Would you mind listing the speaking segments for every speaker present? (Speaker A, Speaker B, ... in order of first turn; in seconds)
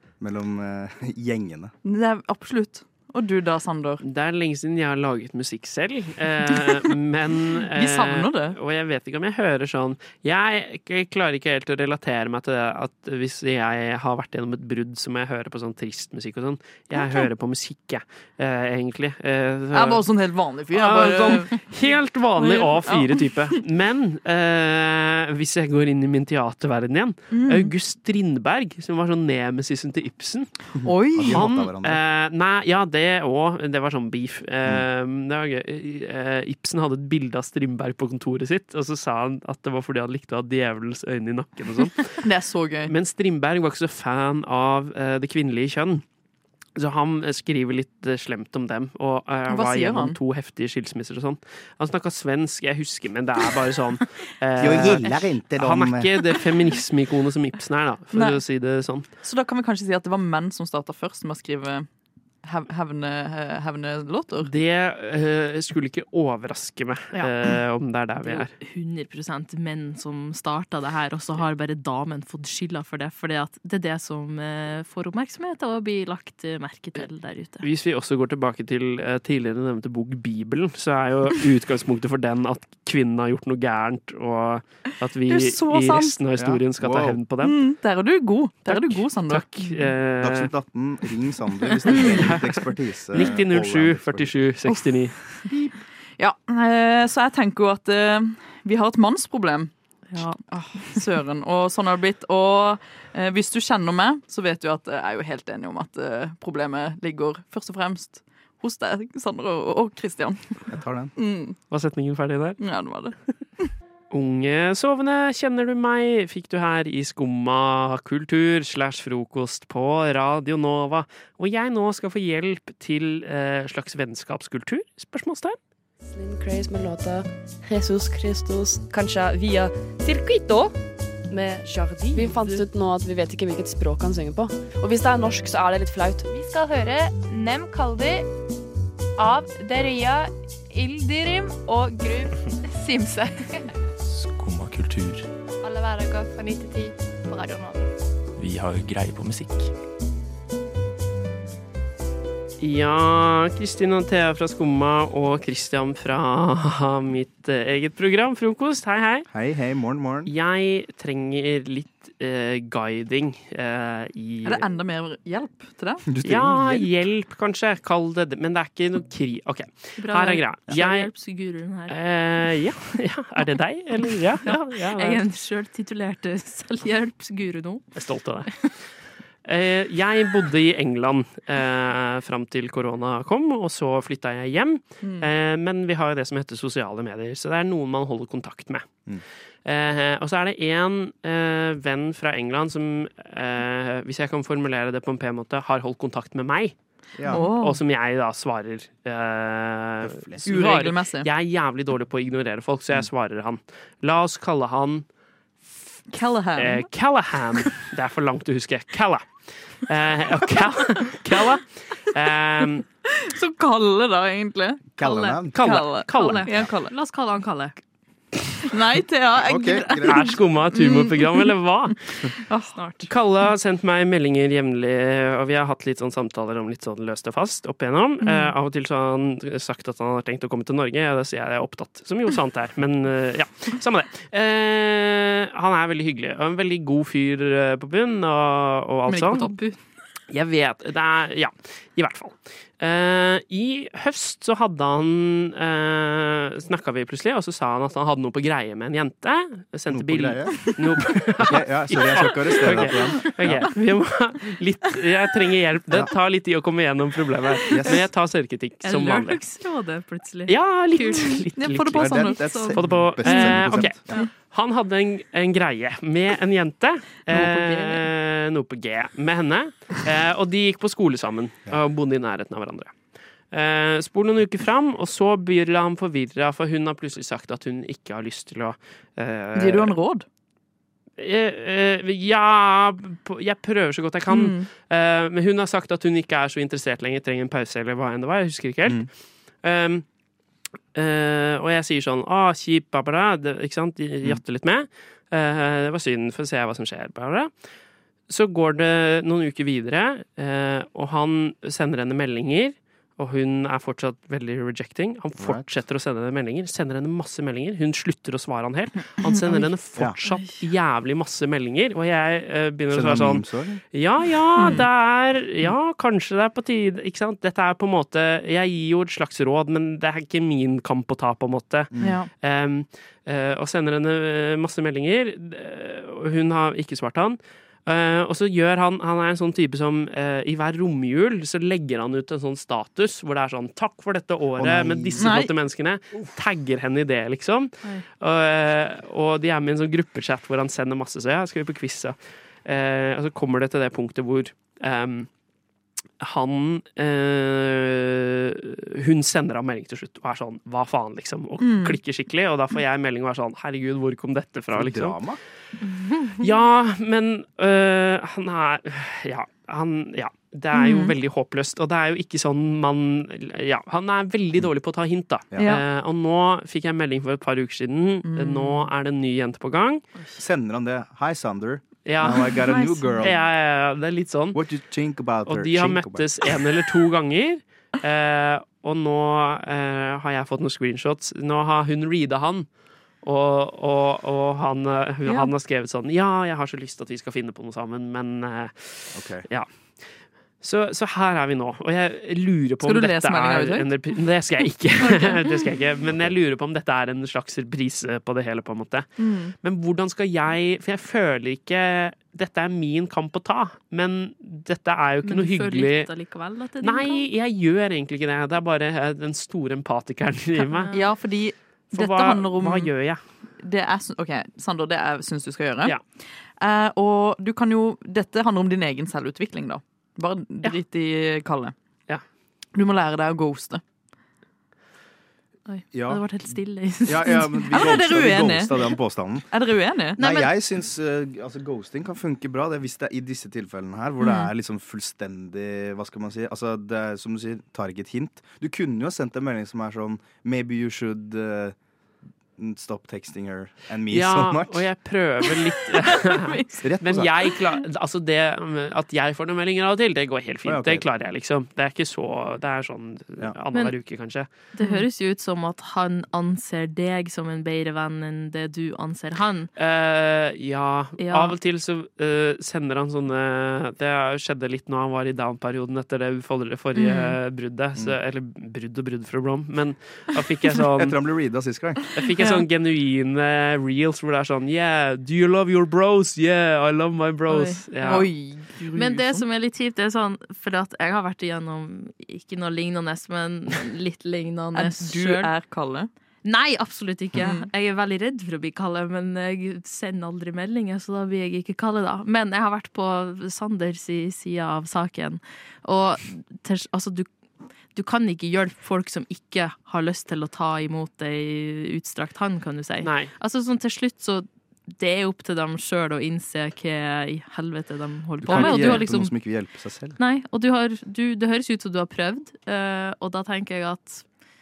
Speaker A: 0.2-1.7, 30.8-32.0, 54.6-56.1, 86.4-87.2, 90.2-94.4, 110.7-111.1, 159.3-160.3, 166.1-166.9, 197.2-197.5, 200.0-200.5, 215.0-215.7, 219.4-220.4, 249.9-250.8, 251.4-253.7, 257.7-258.1, 261.9-264.2, 305.4-305.6, 312.9-313.8, 321.9-322.2, 334.6-335.3, 354.7-355.4, 370.4-373.4, 374.5-376.3, 389.1-389.4, 396.1-396.4, 425.9-426.2, 427.0-429.5, 430.2-441.8, 442.6-444.9, 446.8-447.5, 450.6-451.1, 470.9-472.0, 508.4-510.2
Speaker B: 1.8-4.0, 7.7-8.6, 16.9-17.3, 19.7-21.6, 22.4-23.4, 27.3-27.7, 30.8-31.4, 42.2-42.9, 49.5-50.2, 58.1-58.4, 59.2-61.9, 62.4-64.5, 85.3-86.2, 87.4-89.4, 96.2-99.7, 100.4-110.6, 111.2-111.6, 112.6-113.7, 164.4-166.1, 185.0-185.3, 197.3-197.8, 200.5-201.3, 206.1-206.9, 213.1-214.9, 215.5-216.9, 218.6-221.5, 222.3-222.8, 228.2-228.5, 239.1-239.5, 261.5-262.8, 267.3-268.1, 279.5-280.2, 284.3-284.7, 309.2-309.6, 314.6-314.9, 322.0-322.3, 335.2-335.5, 351.6-352.0, 360.7-361.1, 365.6-365.8, 368.2-368.9, 372.6-373.2, 385.2-385.5, 392.8-393.9, 395.0-395.5, 399.2-399.5, 410.9-412.9, 413.6-416.0, 416.6-421.8, 422.8-423.8, 427.7-428.9, 429.5-430.2, 445.4-446.7, 467.0-467.4, 478.0-479.4, 484.8-486.1, 487.4-487.6, 508.5-508.8
Speaker C: 4.0-20.0, 20.7-30.5, 31.3-42.2, 42.9-46.0, 46.8-59.1, 64.4-68.5, 77.6-87.6, 88.7-90.5, 91.9-95.2, 111.7-112.6, 114.1-125.6, 152.6-159.3, 160.2-164.7, 166.2-171.1, 171.9-175.2, 177.9-178.7, 179.4-188.9, 189.6-196.8, 197.3-205.1, 206.6-209.3, 209.8-212.8, 215.5-216.5, 220.0-222.0, 223.1-239.5, 240.3-259.4, 260.5-272.9, 273.5-280.0, 281.2-289.1, 289.6-290.0, 290.9-297.5, 298.3-345.3, 346.2-355.2, 356.4-370.0, 372.1-372.6, 373.2-374.6, 375.5-382.7, 383.2-389.7, 390.6-406.1, 406.8-410.9, 411.9-413.2, 444.1-454.5, 459.8-471.2, 472.1-478.3, 503.0-503.3
Speaker D: 68.5-77.6, 100.1-100.4, 170.0-171.9, 174.4-177.8, 215.0-215.4, 216.1-217.8, 222.7-223.1, 239.4-239.8, 258.8-261.4, 263.2-263.5, 310.3-310.6, 355.8-356.4, 405.2-407.3, 410.7-411.0, 425.7-427.7, 430.2-430.5, 454.8-459.7, 461.2-461.5, 477.5-477.8, 478.9-485.5, 486.4-497.3, 497.9-509.3, 510.2-514.2
Speaker E: 126.0-130.7, 131.3-136.3
Speaker F: 132.1-132.6, 136.3-138.3, 139.2-143.7, 145.6-147.9
Speaker G: 144.0-145.3, 148.4-149.7